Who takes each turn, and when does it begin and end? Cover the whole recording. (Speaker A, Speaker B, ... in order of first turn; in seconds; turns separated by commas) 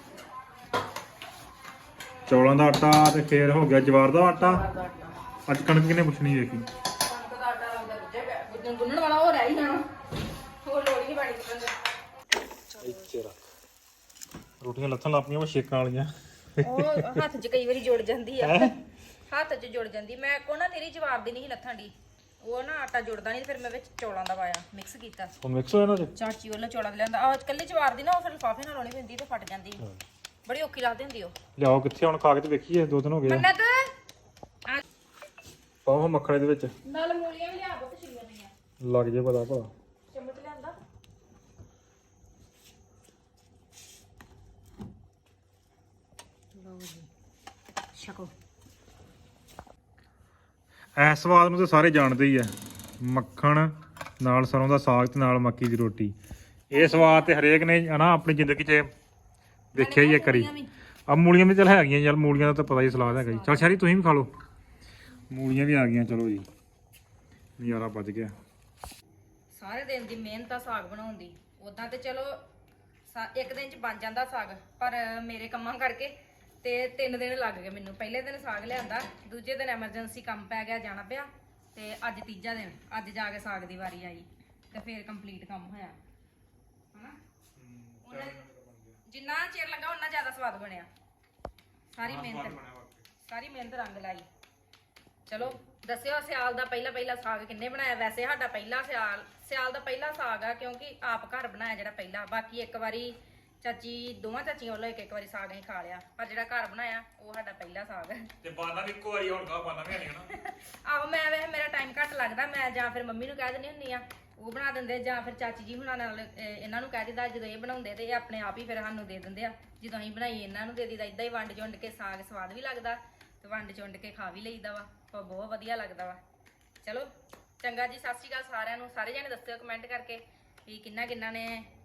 Speaker A: 2.3-4.6, Speaker B: 4.4-5.2, Speaker A: 5.5-6.7, Speaker B: 7.0-9.8, Speaker B: 10.6-11.7, Speaker B: 12.7-13.0, Speaker A: 12.8-13.4, Speaker A: 14.6-17.2, Speaker B: 16.6-18.8, Speaker A: 18.4-18.7, Speaker B: 19.3-25.4, Speaker A: 25.4-26.1, Speaker B: 26.1-29.8, Speaker B: 30.4-31.4, Speaker A: 31.6-33.5, Speaker B: 33.2-33.9, Speaker A: 35.9-36.7, Speaker B: 36.9-38.5, Speaker A: 38.8-39.7, Speaker B: 40.1-40.8, Speaker B: 46.5-47.1, Speaker B: 47.9-48.3, Speaker A: 51.0-56.1, Speaker A: 56.7-58.9, Speaker B: 56.7-57.4, Speaker A: 59.7-60.5, Speaker B: 59.8-60.7, Speaker A: 61.1-64.3, Speaker B: 62.7-63.8, Speaker A: 65.3-66.5, Speaker A: 67.6-68.3, Speaker B: 69.5-72.4, Speaker B: 73.1-86.0, Speaker A: 87.6-89.0, Speaker B: 88.0-88.4, Speaker B: 89.1-90.9, Speaker B: 91.9-92.6, Speaker A: 92.0-93.0, Speaker B: 93.3-94.3, Speaker B: 95.3-108.3, Speaker A: 108.4-110.3, Speaker B: 110.3-126.2, Speaker B: 126.8-131.7